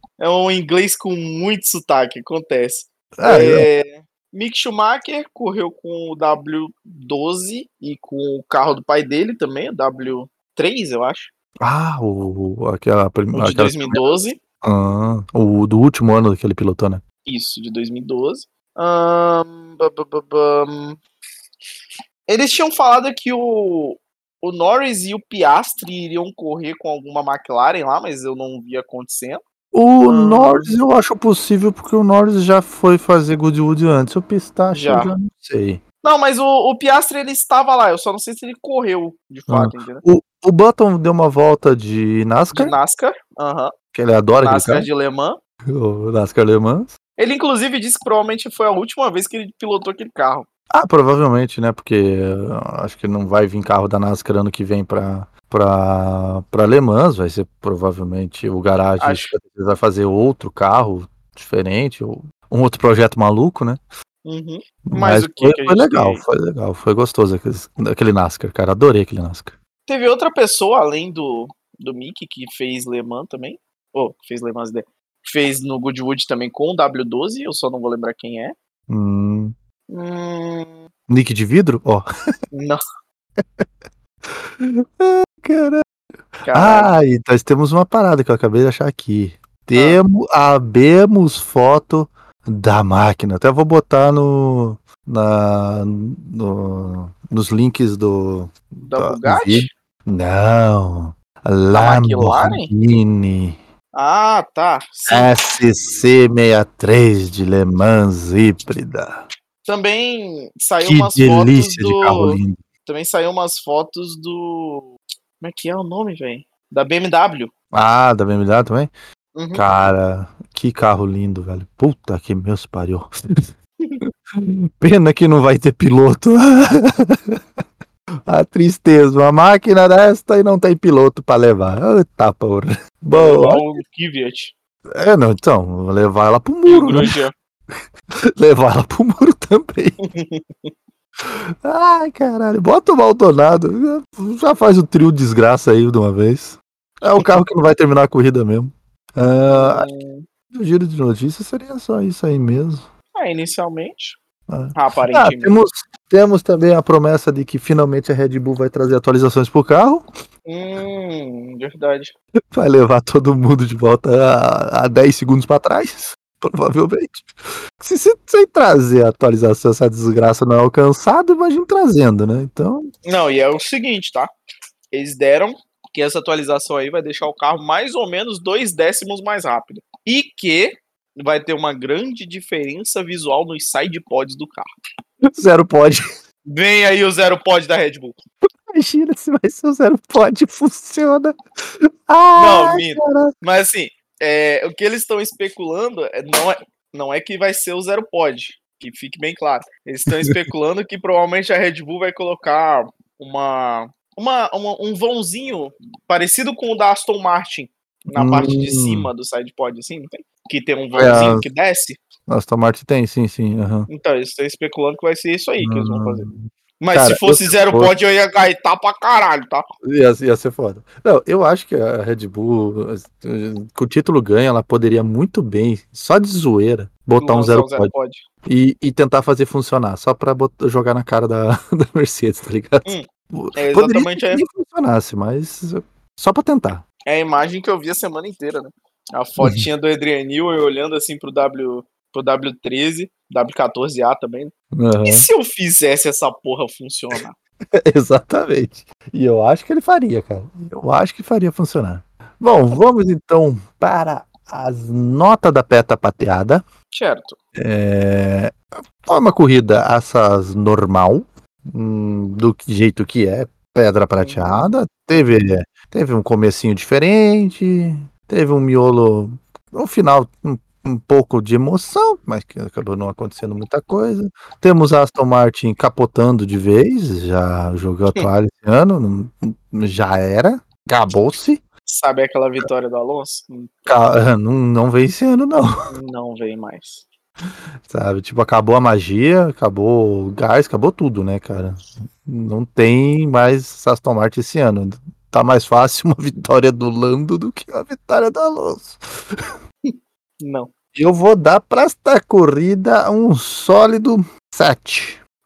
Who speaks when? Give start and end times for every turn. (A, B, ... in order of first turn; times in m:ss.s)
0:00.2-0:11.3 A
0:03.2-0:03.7 B
0:11.6-0:14.1 B
0:13.3-0:14.4 A
0:14.6-0:17.0 B
0:17.2-0:21.0 A
0:22.3-0:29.4 A
0:29.7-0:35.8 B
0:30.1-0:30.7 A
0:34.7-0:35.1 A
0:36.0-0:40.0 A
0:39.5-0:42.8 B
0:42.5-0:43.7 A
0:43.9-0:44.9 B
0:44.4-0:45.4 A
0:45.7-0:46.9 B
0:47.2-0:50.5 A
0:50.7-1:03.8 B
0:59.0-0:59.3 A
1:04.2-1:06.2 A
1:04.9-1:09.5 B
1:09.9-1:18.5 A
1:18.9-1:19.5 B
1:19.9-1:20.9 A
1:21.1-1:22.1 B
1:22.5-1:22.8 A
1:23.4-1:23.6 B
1:24.3-1:25.8 B
1:26.4-1:26.9 A
1:26.5-1:43.6 B
1:29.7-1:30.0 A
1:38.9-1:39.7 A
1:41.7-1:42.7 A
1:43.9-1:45.4 A
1:45.1-1:49.2 B
1:49.6-1:57.5 A
1:50.8-1:52.6 B
1:57.7-1:58.9 B
1:59.4-1:59.6 A
1:59.5-2:03.4 B
2:04.3-2:07.4 B
2:08.2-2:13.8 B
2:13.1-2:14.5 A
2:14.9-2:17.1 B
2:16.7-2:17.3 A
2:18.3-2:20.0 B
2:20.0-2:20.7 A
2:21.2-2:29.9 B
2:29.5-2:30.2 A
2:30.5-2:32.9 B
2:33.2-2:34.2 A
2:34.5-2:40.1 B
2:34.7-2:35.6 A
2:40.5-2:42.1 A
2:42.5-2:52.9 B
2:53.0-2:54.3 A
2:54.9-3:04.7 A
3:05.2-3:06.0 B
3:06.5-3:08.2 A
3:08.7-3:13.3 B
3:12.3-3:32.0 A
3:20.1-3:20.5 B
3:28.1-3:29.1 B
3:31.0-3:31.4 B
3:32.3-3:33.9 B
3:33.9-3:39.6 A
3:35.6-3:37.9 B
3:39.8-3:47.9 B
3:47.2-3:48.2 A
3:48.4-3:56.8 B
3:52.8-3:54.4 A
3:57.0-4:04.5 A
4:04.7-4:05.3 B
4:05.0-4:07.4 A
4:07.7-4:16.6 B
4:16.9-4:17.4 A
4:17.6-4:41.6 B
4:24.2-4:24.7 A
4:41.8-4:43.7 A
4:43.8-4:45.9 B
4:45.9-4:47.0 A
4:47.9-4:59.2 B
4:59.8-5:00.7 A
5:00.9-5:05.2 B